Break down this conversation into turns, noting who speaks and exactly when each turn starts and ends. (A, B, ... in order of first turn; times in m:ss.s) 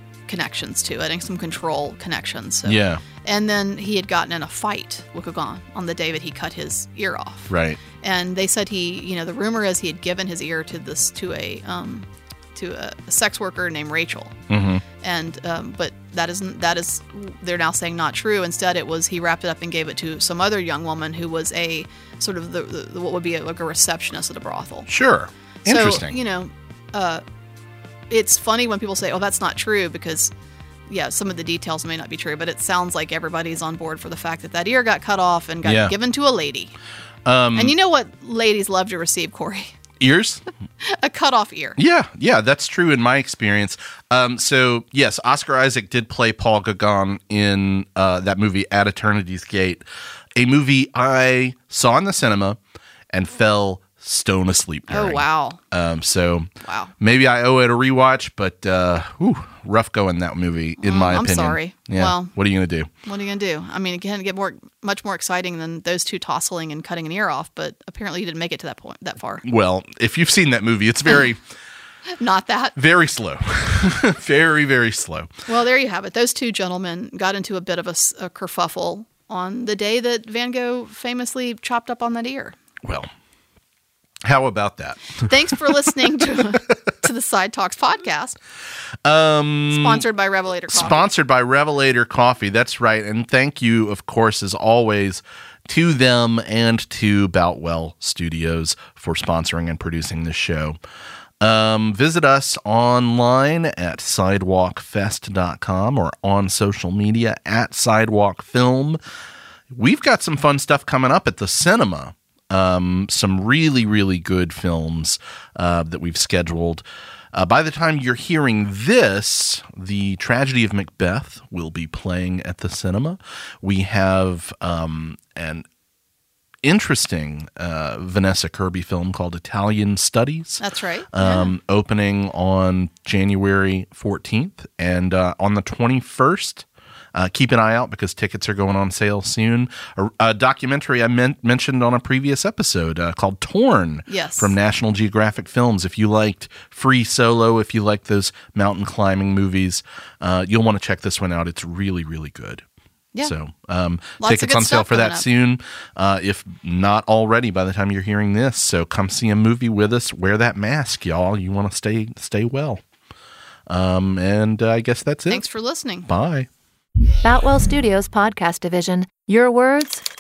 0:00.3-0:14.4 A
0:02.6-0:03.0 B
0:07.5-0:07.8 B
0:14.5-0:14.8 B
0:15.0-0:24.9 A
0:24.9-0:26.2 B
0:25.7-0:27.2 A
0:28.1-0:30.3 A
0:30.9-0:36.8 A
0:35.6-0:35.9 B
0:37.2-0:37.7 B
0:37.6-0:39.7 A
0:40.0-0:40.4 B
0:40.8-0:41.8 A
0:41.8-0:49.8 B
0:50.4-0:52.6 B
0:53.1-1:02.9 B
0:54.9-0:55.6 A
0:56.6-0:56.9 A
1:00.8-1:02.3 A
1:03.0-1:09.4 A
1:09.4-1:11.4 B
1:12.2-1:12.8 A
1:12.8-1:15.3 B
1:15.5-1:22.6 A
1:22.8-1:23.1 B
1:24.2-1:25.0 B
1:25.3-1:28.4 A
1:29.0-1:30.0 B
1:29.7-1:31.1 A
1:30.7-1:40.8 B
1:41.4-1:49.0 B
1:49.7-2:05.6 B
2:06.6-2:10.6 B
2:10.6-2:11.5 A
2:11.1-2:32.6 B
2:24.1-2:24.5 A
2:33.2-2:42.8 B
2:34.2-2:35.2 A
2:43.7-2:45.4 B
2:45.3-2:46.1 A
2:46.1-2:46.5 B
2:47.2-2:50.0 C